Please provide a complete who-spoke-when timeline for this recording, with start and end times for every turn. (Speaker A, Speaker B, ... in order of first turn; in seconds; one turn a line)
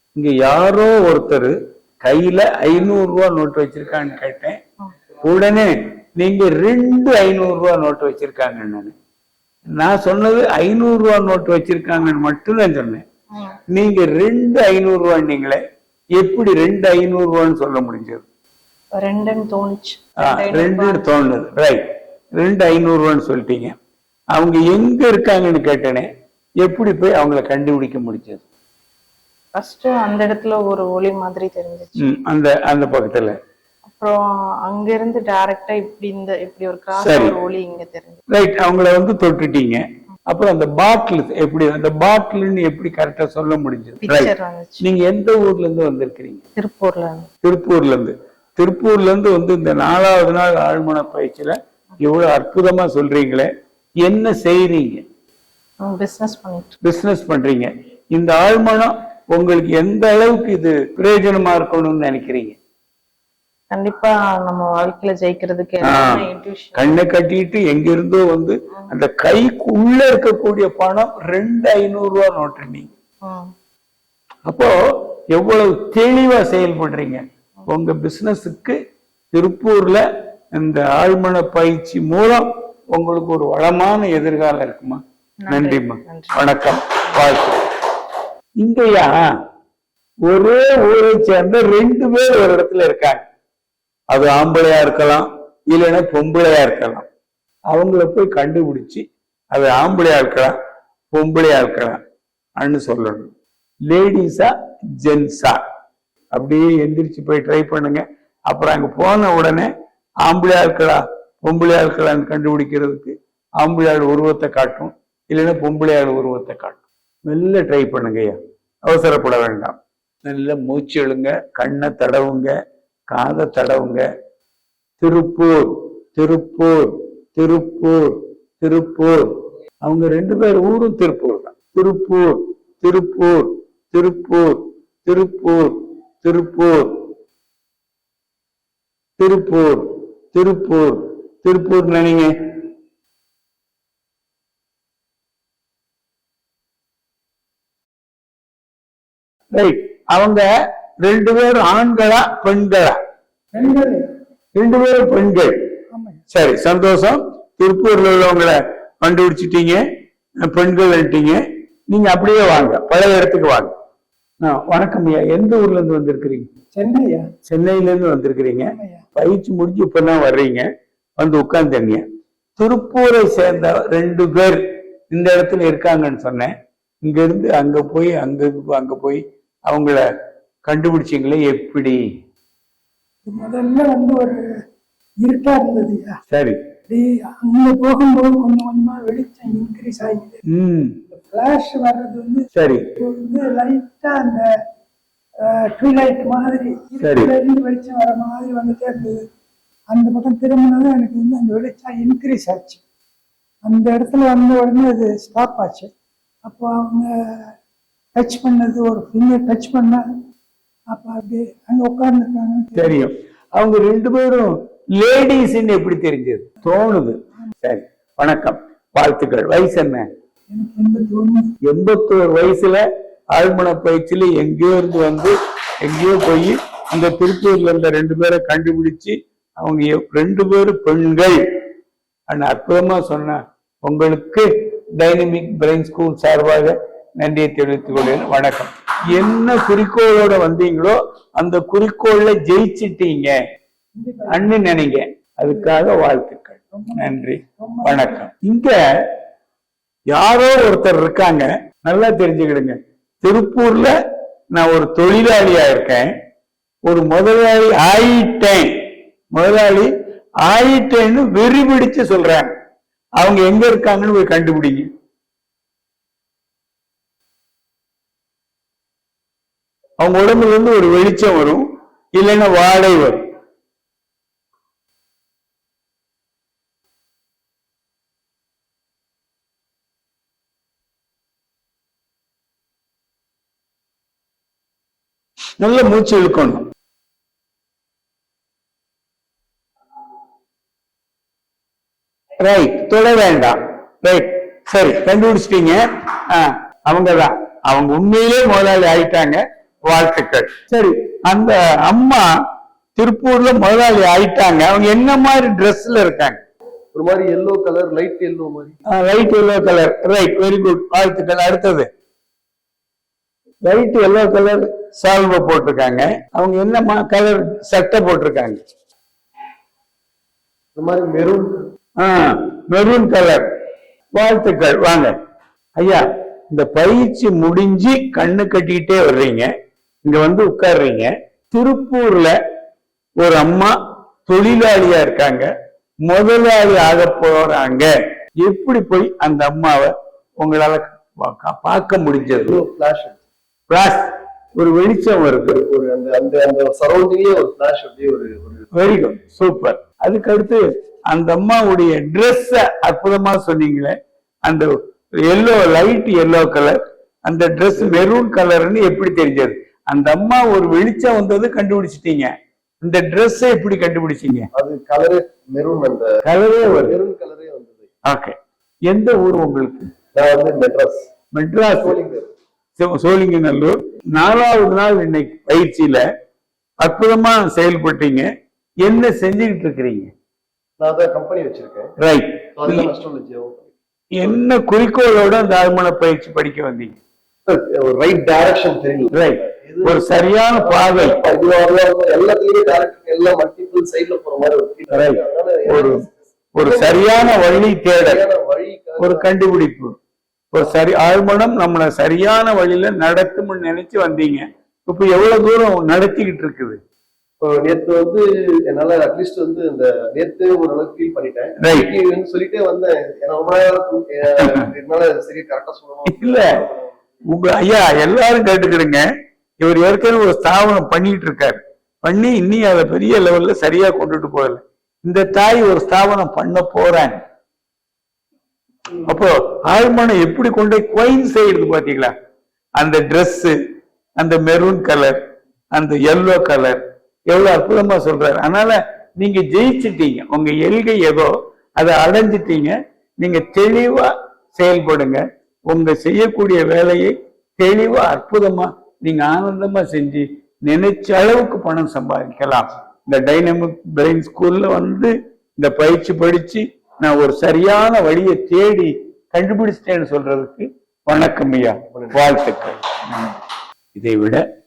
Speaker A: 0.1-4.6
Speaker A: 5.2-8.9
Speaker A: 9.8-13.0
Speaker A: 13.7-15.6
Speaker A: 16.2-18.2
Speaker B: 18.9-21.1
Speaker A: 20.2-21.8
Speaker A: 22.4-23.7
Speaker A: 24.3-26.1
Speaker A: 26.6-28.4
Speaker B: 29.5-31.9
Speaker A: 32.0-33.4
Speaker B: 33.9-34.2
Speaker B: 34.7-38.2
Speaker A: 36.9-37.4
Speaker A: 38.3-46.4
Speaker B: 44.0-44.8
Speaker B: 46.5-47.3
Speaker A: 47.4-53.5
Speaker A: 54.0-55.0
Speaker B: 55.8-56.8
Speaker A: 56.8-62.6
Speaker B: 63.7-67.0
Speaker A: 65.8-72.9
Speaker A: 74.5-74.7
Speaker A: 75.3-78.8
Speaker A: 79.3-80.0
Speaker A: 80.5-87.6
Speaker B: 85.4-86.5
Speaker A: 88.6-89.3
Speaker A: 90.3-93.2
Speaker A: 94.1-97.1
Speaker A: 97.7-100.5
Speaker A: 101.1-102.0
Speaker A: 102.6-103.3
Speaker A: 103.9-105.6
Speaker A: 106.3-109.7
Speaker A: 110.2-122.5
Speaker A: 123.1-124.0
Speaker A: 125.0-129.3
Speaker A: 129.8-137.1
Speaker A: 139.2-142.3
Speaker A: 149.5-150.4
Speaker A: 151.0-152.9
Speaker C: 153.5-154.0
Speaker A: 154.5-155.5
Speaker C: 155.9-156.2
Speaker A: 156.3-159.8
Speaker A: 160.4-163.7
Speaker A: 164.4-166.5
Speaker C: 166.7-167.3
Speaker A: 167.4-172.0
Speaker C: 168.7-169.0
Speaker A: 172.6-180.0
Speaker A: 180.6-182.0
Speaker C: 183.2-184.4
Speaker C: 185.2-186.2
Speaker A: 186.3-186.6
Speaker C: 186.9-190.4
Speaker A: 190.5-190.9
Speaker C: 191.1-192.5
Speaker A: 192.5-192.8
Speaker C: 193.0-194.4
Speaker C: 195.4-199.2
Speaker A: 197.0-197.3
Speaker C: 199.9-202.8
Speaker C: 203.6-205.9
Speaker C: 206.4-207.1
Speaker C: 208.2-210.0
Speaker C: 210.9-212.9
Speaker A: 212.8-220.1
Speaker C: 220.5-221.5
Speaker A: 221.6-222.8
Speaker A: 223.3-231.4
Speaker A: 232.3-243.4
Speaker C: 243.9-244.4
Speaker A: 244.3-248.8
Speaker C: 246.7-248.2
Speaker A: 250.1-253.9
Speaker A: 254.5-256.1
Speaker A: 256.9-258.7
Speaker A: 259.3-259.9
Speaker A: 260.4-262.5
Speaker A: 263.2-264.9
Speaker A: 270.0-271.6
Speaker A: 272.1-273.2
Speaker A: 285.6-286.6
Speaker A: 292.4-302.3
Speaker A: 302.9-306.4
Speaker D: 306.9-308.8
Speaker A: 308.9-311.9
Speaker A: 313.6-318.6
Speaker D: 320.7-321.5
Speaker A: 322.0-323.4
Speaker A: 324.1-325.1
Speaker A: 325.8-329.5
Speaker A: 330.1-332.3
Speaker A: 333.2-333.7
Speaker A: 334.2-335.5
Speaker A: 336.0-337.9
Speaker A: 338.4-342.6
Speaker D: 342.4-343.2
Speaker A: 343.7-345.6
Speaker D: 345.5-348.7
Speaker A: 348.7-353.9
Speaker A: 354.4-354.7
Speaker A: 355.2-364.5
Speaker D: 357.7-358.1
Speaker D: 364.5-366.2
Speaker A: 366.2-367.0
Speaker D: 366.7-367.9
Speaker A: 368.1-368.4
Speaker A: 368.9-369.9
Speaker D: 370.1-371.1
Speaker A: 371.3-372.0
Speaker D: 371.8-372.3
Speaker A: 372.8-376.0
Speaker A: 376.8-378.3
Speaker A: 378.8-380.1
Speaker D: 380.8-381.9
Speaker A: 382.0-382.9
Speaker D: 382.6-384.4
Speaker A: 384.1-386.9
Speaker D: 387.5-399.3
Speaker A: 389.1-391.2
Speaker A: 394.9-396.0
Speaker A: 396.5-398.2
Speaker A: 399.0-399.9
Speaker A: 400.5-406.8
Speaker D: 407.4-416.9
Speaker A: 411.6-411.9
Speaker A: 416.1-416.4
Speaker A: 417.3-419.0
Speaker A: 419.6-427.2
Speaker A: 429.0-432.1
Speaker A: 432.8-433.5
Speaker A: 434.2-435.1
Speaker A: 435.7-463.3
Speaker D: 461.9-462.3
Speaker A: 463.9-464.4